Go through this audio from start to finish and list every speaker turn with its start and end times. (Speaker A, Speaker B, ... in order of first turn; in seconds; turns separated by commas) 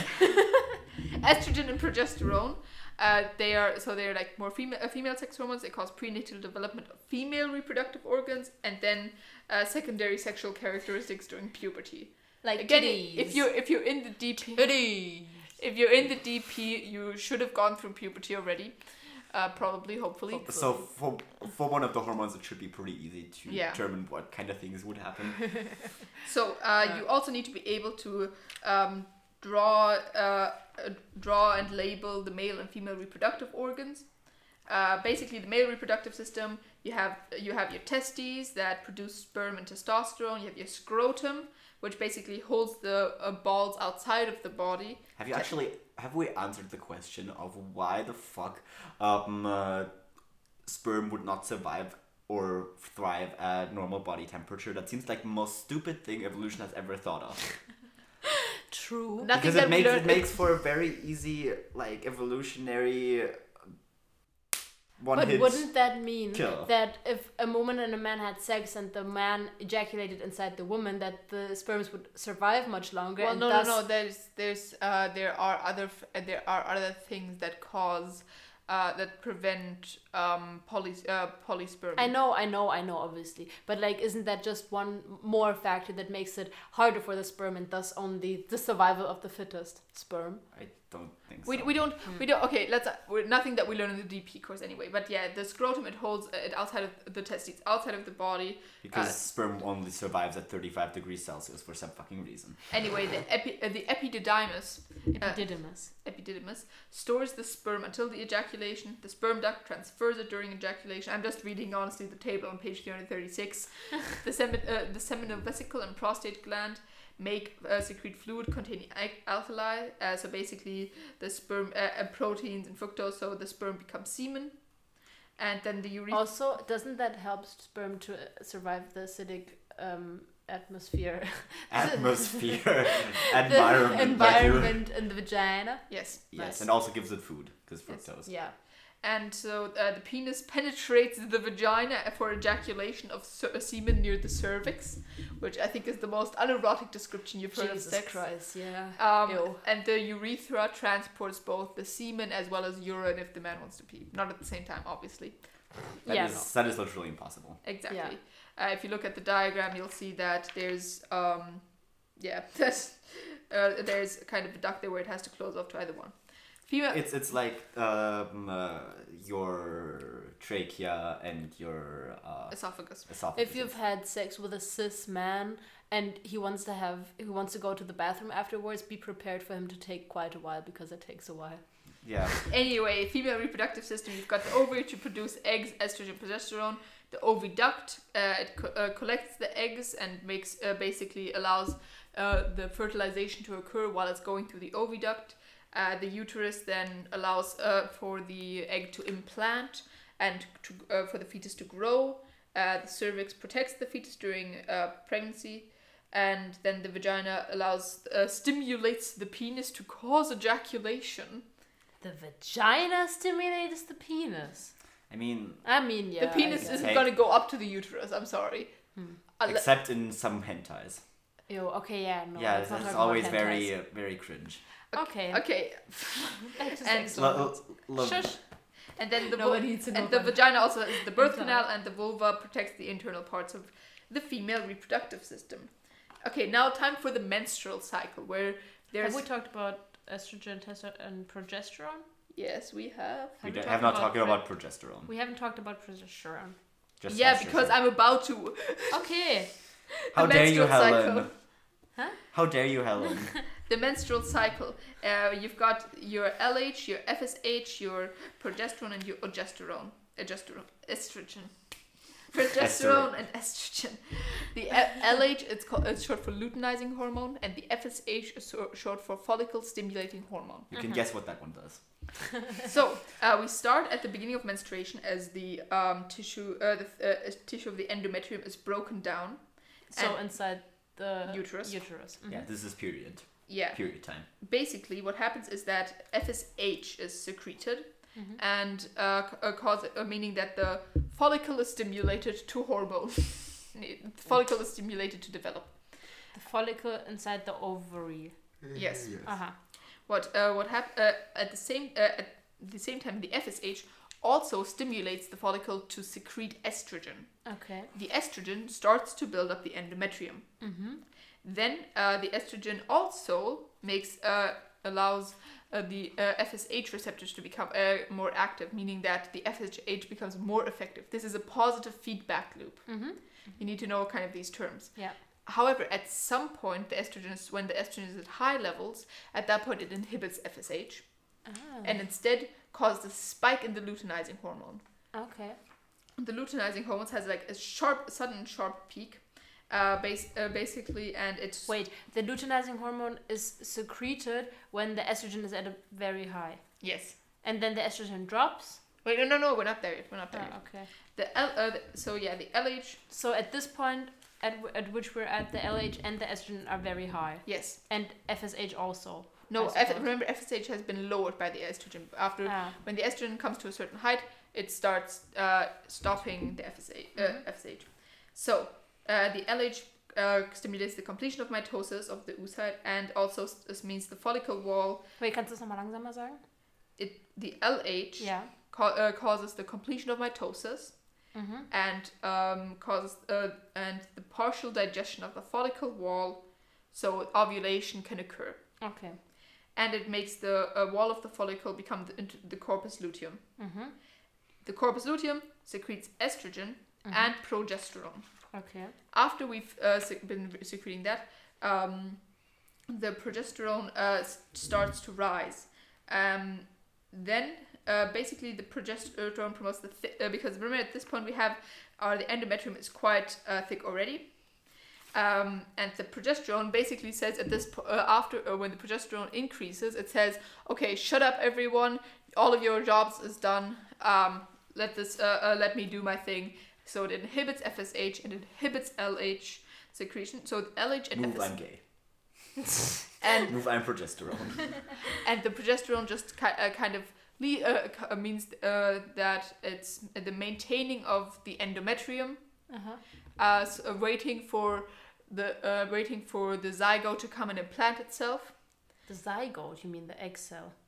Speaker A: 1.1-20.8, Speaker B: 12.4-13.4, Speaker B: 14.6-15.5, Speaker C: 20.4-25.9, Speaker A: 23.5-23.8, Speaker A: 26.2-45.5, Speaker C: 45.1-49.9, Speaker C: 50.6-57.5, Speaker B: 58.7-59.3, Speaker A: 59.2-60.4, Speaker C: 59.3-63.4, Speaker C: 65.0-66.7, Speaker B: 65.1-73.8, Speaker A: 73.2-82.1, Speaker B: 82.0-90.4, Speaker C: 90.5-91.8, Speaker A: 91.4-99.2, Speaker C: 98.8-102.6, Speaker A: 102.7-126.2, Speaker B: 105.2-105.9, Speaker B: 126.1-136.7, Speaker C: 131.7-134.8, Speaker A: 135.9-136.2, Speaker C: 136.3-138.3, Speaker B: 138.2-138.5, Speaker A: 139.0-155.4, Speaker B: 147.5-149.6, Speaker C: 156.0-157.6, Speaker B: 156.0-156.4, Speaker A: 157.6-167.1, Speaker B: 157.9-158.2, Speaker C: 166.9-173.7, Speaker A: 172.5-173.1, Speaker B: 173.3-182.1, Speaker C: 182.0-182.3, Speaker A: 182.5-211.4, Speaker B: 212.0-214.7, Speaker C: 215.1-215.6, Speaker B: 215.6-216.9, Speaker A: 216.2-219.7, Speaker C: 216.6-217.1, Speaker C: 219.4-221.0, Speaker B: 221.5-223.7, Speaker C: 222.3-224.6, Speaker B: 224.9-225.4, Speaker A: 224.9-227.5, Speaker B: 226.6-228.4, Speaker C: 227.1-228.4, Speaker A: 228.9-235.7, Speaker B: 229.3-231.6, Speaker A: 236.2-239.2, Speaker B: 239.0-242.0, Speaker A: 242.3-243.8, Speaker C: 243.4-245.1, Speaker B: 243.4-246.6, Speaker C: 247.0-247.8, Speaker A: 247.1-249.1, Speaker B: 248.9-249.5, Speaker A: 250.1-251.3, Speaker C: 250.1-251.3, Speaker B: 251.9-252.2, Speaker C: 252.3-253.4, Speaker A: 253.7-270.7, Speaker C: 262.6-263.1, Speaker C: 270.7-272.3, Speaker B: 270.7-271.0, Speaker A: 272.6-280.6, Speaker B: 279.9-282.5, Speaker A: 281.3-282.0, Speaker C: 282.3-284.2, Speaker A: 283.5-296.0, Speaker B: 288.1-288.4, Speaker B: 296.3-298.5, Speaker C: 298.7-299.3, Speaker A: 298.7-310.6, Speaker B: 299.2-299.5, Speaker B: 307.4-307.9, Speaker B: 310.6-311.0, Speaker A: 311.4-334.8, Speaker B: 322.9-323.6, Speaker B: 331.4-332.0, Speaker B: 335.1-335.6, Speaker A: 336.2-341.8, Speaker B: 341.7-348.8, Speaker A: 346.8-347.2, Speaker A: 349.0-353.0, Speaker B: 350.3-350.9, Speaker B: 353.1-360.1, Speaker A: 357.4-357.8, Speaker A: 359.5-375.0, Speaker B: 362.4-362.8, Speaker B: 367.2-367.4, Speaker B: 375.2-376.4, Speaker A: 377.0-388.8, Speaker B: 378.2-378.5, Speaker B: 381.3-381.7, Speaker B: 388.8-389.2, Speaker A: 389.7-393.4, Speaker B: 393.6-393.9, Speaker A: 394.6-398.5, Speaker B: 397.0-397.3, Speaker B: 398.5-398.9, Speaker A: 399.1-431.8, Speaker C: 431.1-432.4, Speaker A: 433.2-434.0, Speaker C: 433.5-435.0, Speaker A: 435.2-442.8, Speaker B: 442.7-443.0, Speaker A: 443.4-448.6, Speaker B: 449.1-450.7